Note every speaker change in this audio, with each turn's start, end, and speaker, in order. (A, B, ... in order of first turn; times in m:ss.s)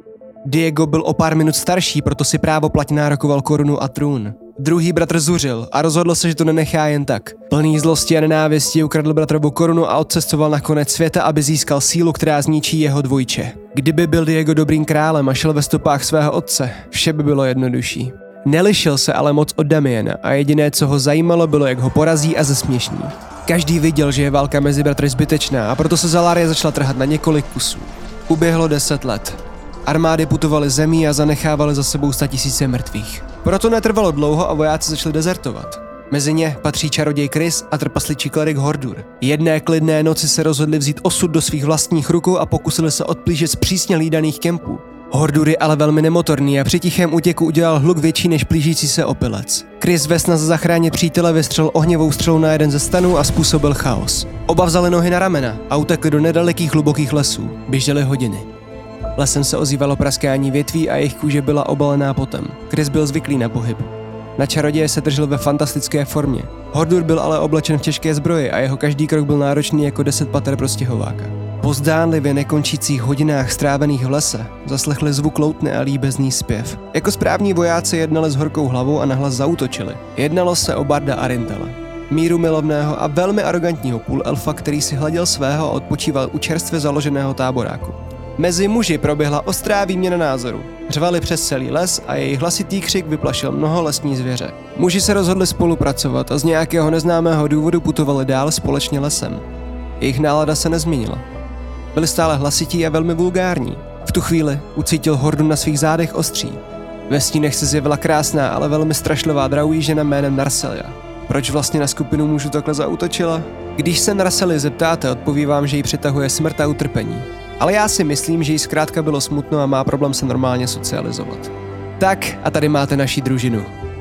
0:00.4-0:58.5 A
0:59.2-1:39.4 A
1:40.0-1:41.2 A
1:41.9-2:03.7 A